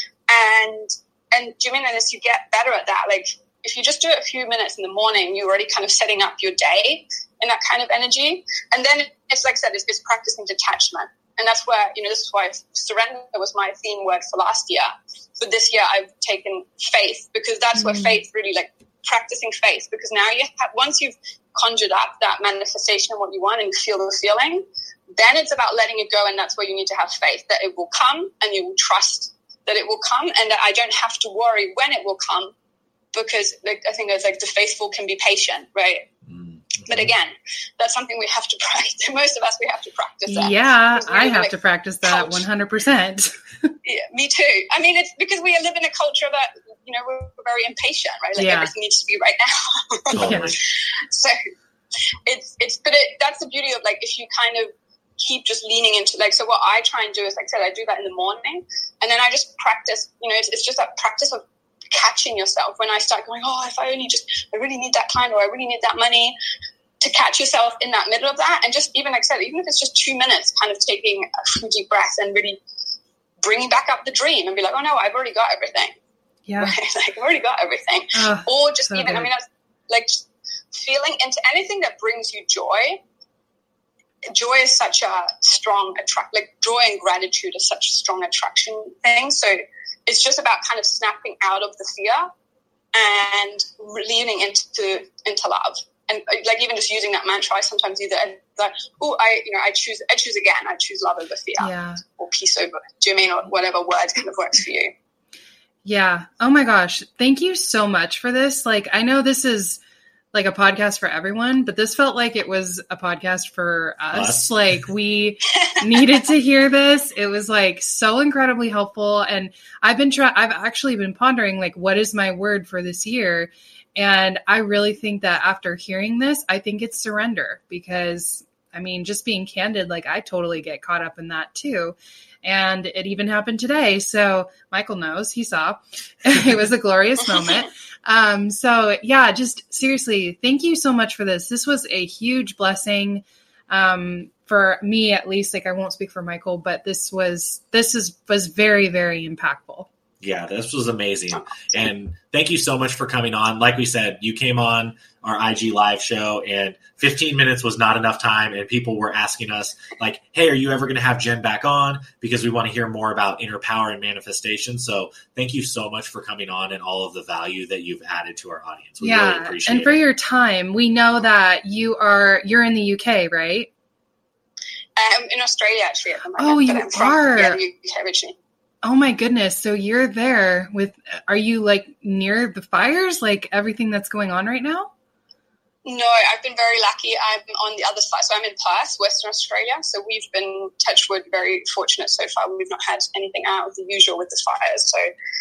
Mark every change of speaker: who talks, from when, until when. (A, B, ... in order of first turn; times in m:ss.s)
0:00.3-0:32.5 A
0:17.7-0:18.2 B
0:33.1-0:36.0 A
0:36.2-0:37.1 C
0:36.9-0:41.5 A
0:40.3-0:43.7 B
0:42.0-0:42.4 A
0:43.8-0:51.3 A
0:48.4-0:48.7 B
0:50.1-0:50.6 B
0:50.1-0:50.6 C
0:52.2-1:06.3 A
1:07.0-1:12.6 A
1:13.4-1:15.9 A
1:16.5-1:16.7 B
1:16.6-1:20.2 A
1:18.1-1:19.3 B
1:20.7-1:23.0 A
1:24.3-1:32.3 A
1:32.9-1:44.9 A
1:41.6-1:42.0 B
1:45.8-1:49.8 B
1:50.3-2:29.9 B
1:54.1-1:54.5 C
2:30.2-2:50.0 C
2:49.0-2:53.7 B
2:55.0-2:58.4 A
2:56.4-2:57.6 B
2:58.8-3:04.9 B
3:05.8-3:15.0 A